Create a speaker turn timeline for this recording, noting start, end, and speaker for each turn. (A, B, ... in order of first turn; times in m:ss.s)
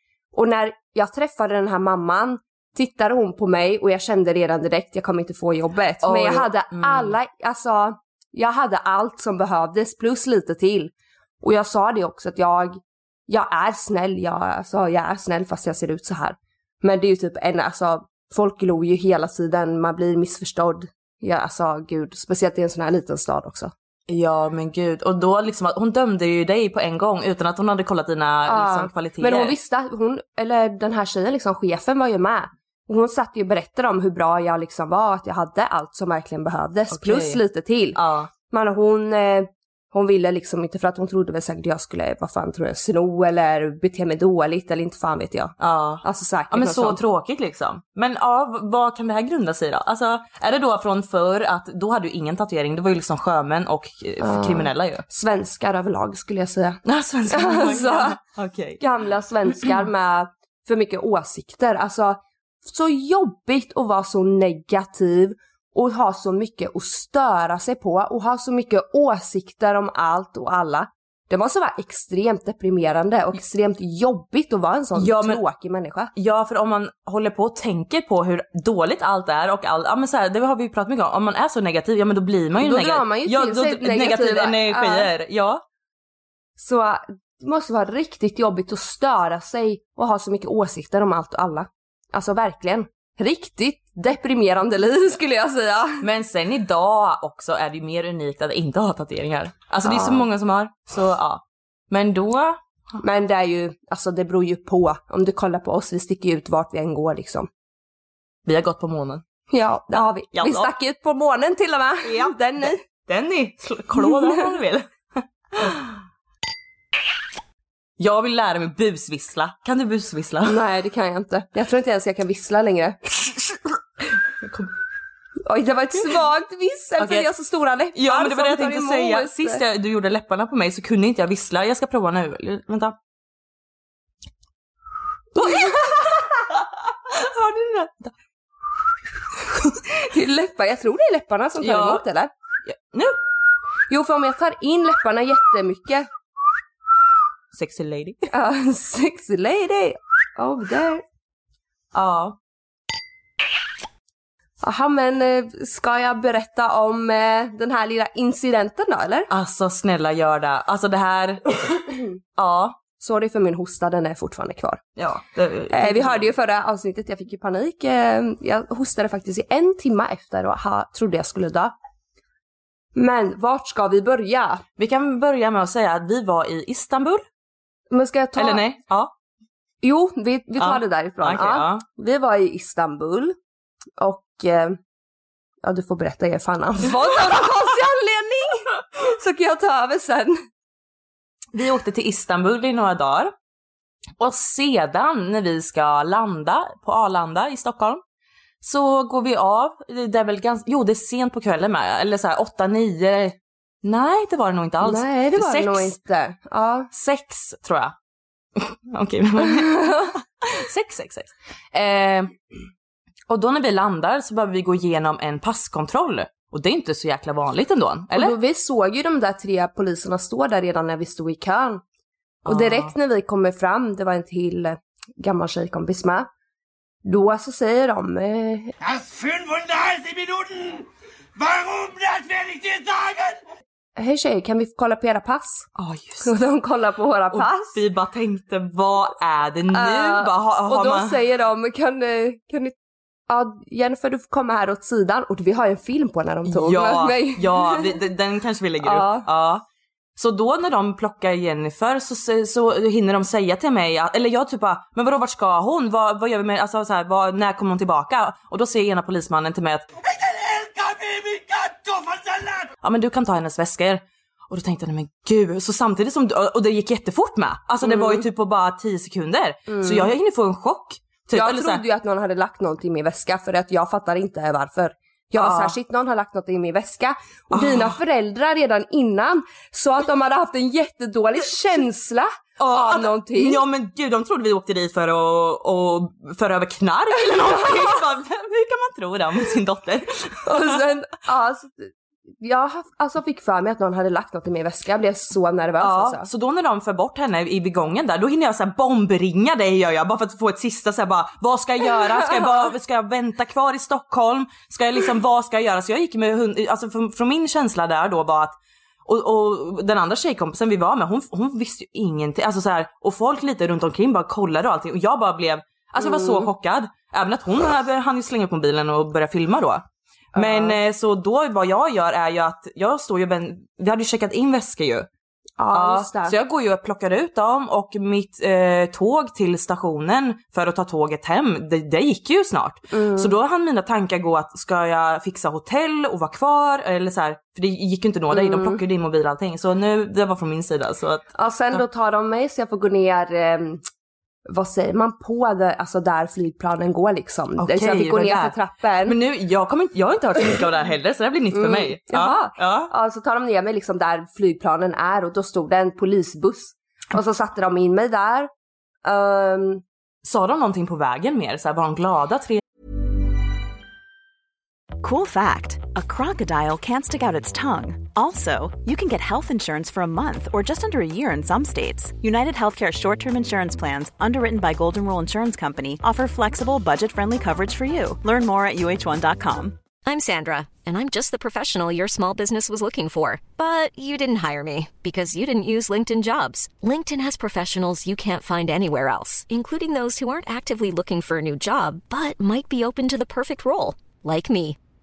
0:00.3-0:23.7 A
0:06.0-0:07.2 B
0:24.1-0:29.6 B
0:28.5-0:38.0 A
0:36.9-0:37.4 B
0:38.0-0:38.3 B
0:38.5-0:47.0 A
0:45.6-0:55.0 B
0:54.2-0:58.2 A
0:56.9-0:58.8 B
0:58.8-1:16.1 A
1:15.0-1:15.4 B
1:16.2-1:25.6 B
1:22.6-1:25.1 A
1:26.6-1:36.0 A
1:36.0-1:42.6 B
1:39.8-1:40.3 A
1:43.0-1:47.5 A
1:48.5-1:49.2 B
1:49.5-1:52.8 A
1:50.3-1:50.7 B
1:52.0-1:55.9 B
1:54.0-1:54.5 A
1:58.0-2:00.6 B
2:00.4-2:03.0 A
2:04.4-2:04.7 B
2:05.5-2:09.6 A
2:07.0-2:07.3 B
2:07.9-2:13.0 B
2:15.4-2:18.1 B
2:15.4-2:16.2 A
2:20.0-2:22.3 A
2:21.6-2:22.0 B
2:22.6-2:23.2 B
2:23.9-2:26.1 A
2:27.5-2:28.3 B
2:28.3-2:31.0 A
2:31.9-2:32.4 B
2:34.6-2:39.3 A
2:39.3-2:42.8 B
2:43.0-2:44.8 A
2:45.0-2:46.3 B
2:45.7-2:51.7 A
2:53.0-2:54.6 A
2:54.8-2:57.2 B
2:57.9-2:58.6 A
2:58.4-2:59.1 B
2:59.8-3:03.4 A
3:00.6-3:01.8 B
3:04.0-3:04.8 A
3:05.6-3:10.4 A
3:11.5-3:13.3 B
3:14.2-3:18.0 B
3:18.6-3:26.0 B
3:24.8-3:26.9 A
3:26.9-3:28.0 B
3:28.6-3:32.3 B
3:29.7-3:30.1 A
3:33.3-3:38.4 B
3:38.1-3:41.8 A
3:42.5-3:46.3 A
3:42.5-3:42.9 B
3:47.0-3:48.7 A
3:48.8-3:53.4 C
3:54.0-3:55.7 A
3:55.8-3:56.3 B
3:56.2-3:57.8 A
3:57.3-4:01.2 B
3:59.7-4:02.7 A
4:03.3-4:07.9 A
4:06.5-4:09.6 B
4:08.8-4:09.3 A
4:10.2-4:19.9 B
4:20.0-4:22.7 C
4:22.8-4:31.8 B
4:27.8-4:28.2 A
4:29.7-4:30.1 A
4:31.4-4:43.6 A
4:35.4-4:35.8 B
4:37.5-4:38.0 B
4:42.6-4:50.8 B
4:50.5-4:56.3 A
4:55.8-5:08.5 B
5:09.0-5:25.1 B
5:16.0-5:16.5 A
5:20.4-5:20.8 A
5:25.6-5:26.4 A
5:25.7-5:41.8 B
5:32.9-5:33.4 A
5:38.3-5:38.8 A
5:41.4-5:43.8 A
5:44.5-5:49.2 A
5:47.6-5:48.6 B
5:49.1-5:52.9 B
5:51.5-5:58.5 A
5:59.0-5:59.8 A
6:00.2-6:02.6 B
6:05.0-6:19.8 D
6:20.0-6:34.8 E